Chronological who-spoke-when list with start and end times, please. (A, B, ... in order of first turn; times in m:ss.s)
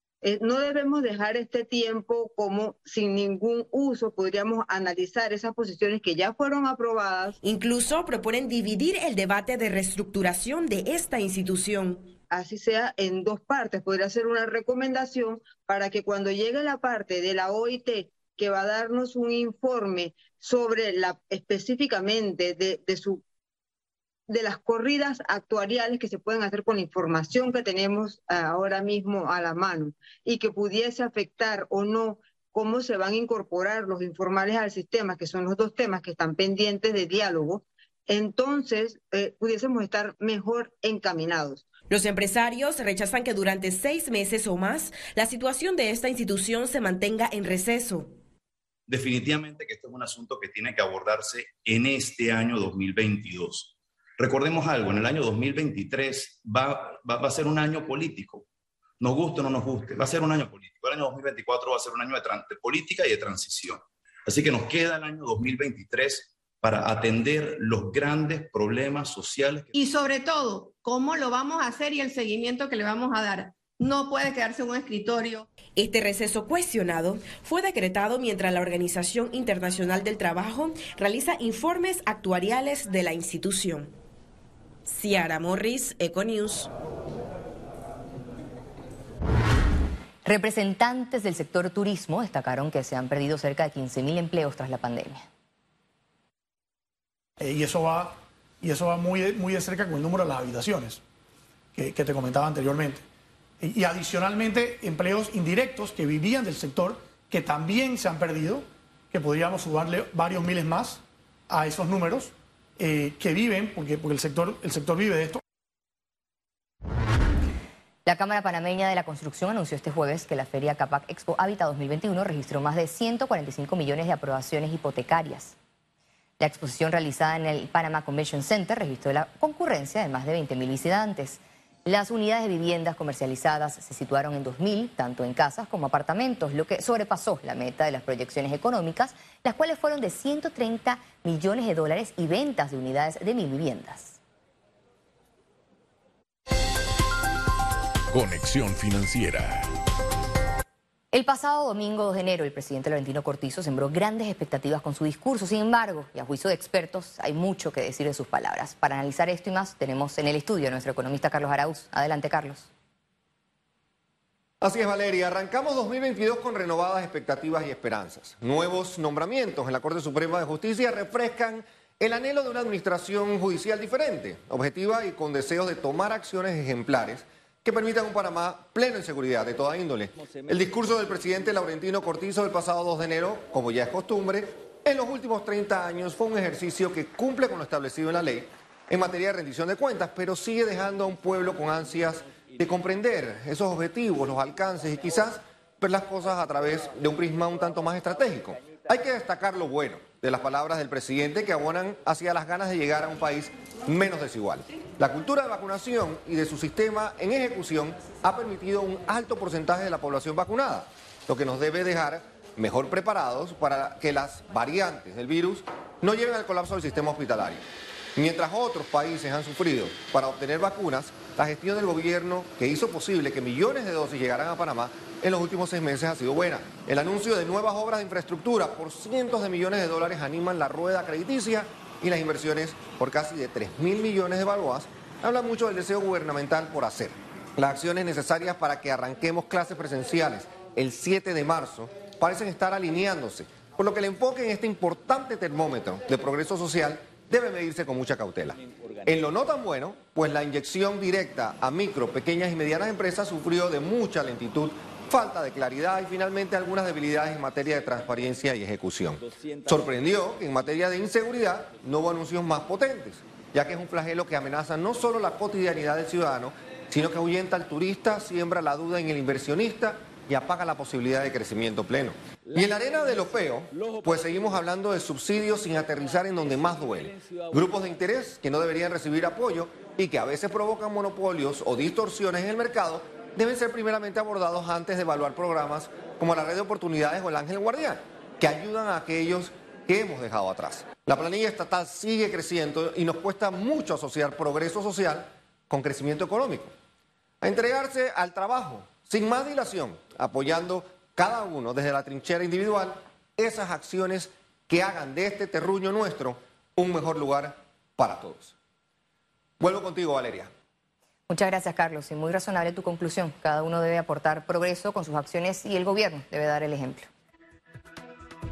0:00.2-0:07.4 A
0:07.4-0:12.1 B
0:12.3-0:23.2 A
0:24.3-0:41.6 A
0:41.9-0:48.1 B
0:48.9-0:58.4 C
0:59.0-1:09.7 C
1:09.8-1:15.4 D
1:15.8-1:23.9 B
1:24.9-1:26.7 B
1:30.2-1:35.2 E
1:37.4-1:41.0 F
1:41.8-1:43.0 F
1:43.6-1:51.0 F
1:51.5-1:55.4 F
1:58.1-2:05.6 E
2:06.4-2:24.2 E
2:31.1-2:42.7 E
2:44.6-3:37.6 G
3:38.2-4:56.7 G
4:57.4-5:08.6 G
5:09.6-5:10.5 G
5:11.3-5:17.1 E